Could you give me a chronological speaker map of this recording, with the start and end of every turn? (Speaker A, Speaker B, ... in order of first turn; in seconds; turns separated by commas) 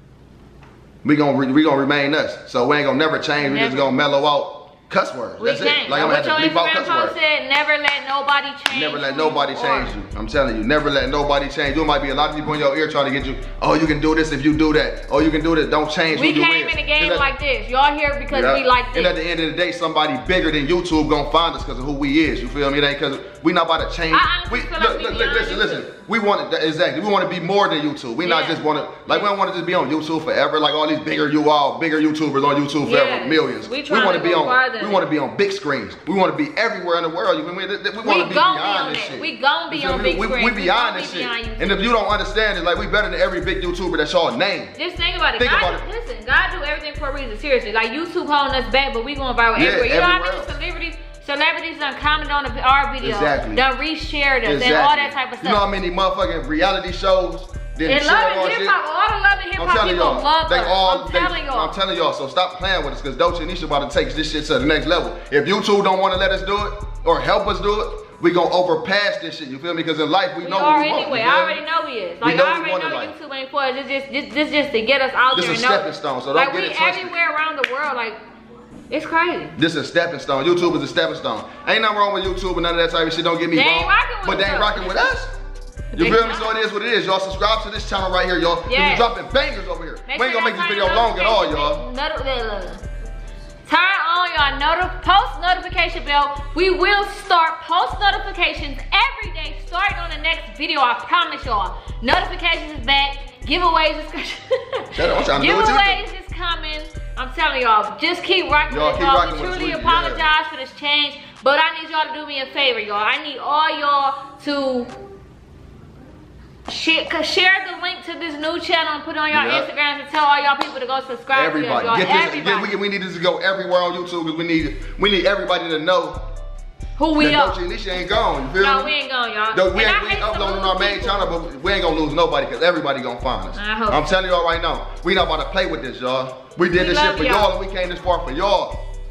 Speaker A: 1.0-7.1, Speaker B: 3.4-3.9, Speaker B: 5.4-9.9, Speaker A: 8.7-17.2, Speaker B: 16.1-19.1, Speaker A: 18.3-44.7, Speaker B: 24.1-25.9, Speaker B: 28.2-29.3, Speaker B: 32.8-35.0, Speaker B: 38.0-41.9, Speaker B: 44.8-55.6, Speaker A: 45.4-45.8, Speaker A: 49.5-50.5, Speaker A: 53.0-53.6, Speaker A: 54.4-58.8, Speaker B: 57.8-61.8, Speaker A: 59.6-71.6, Speaker B: 70.4-78.2, Speaker A: 72.2-73.1, Speaker A: 75.3-77.1, Speaker B: 78.9-79.5, Speaker A: 79.6-85.3, Speaker B: 83.5-85.1, Speaker B: 85.9-86.5, Speaker A: 86.0-91.8, Speaker B: 88.7-89.1, Speaker B: 90.1-92.8, Speaker B: 93.7-114.9, Speaker A: 104.9-106.0, Speaker A: 108.7-110.2, Speaker B: 116.7-122.7, Speaker A: 119.3-119.7, Speaker A: 121.3-126.2, Speaker B: 127.0-127.6, Speaker A: 127.2-128.9, Speaker B: 128.6-131.3, Speaker A: 129.5-138.8, Speaker B: 133.5-134.1, Speaker B: 136.7-137.5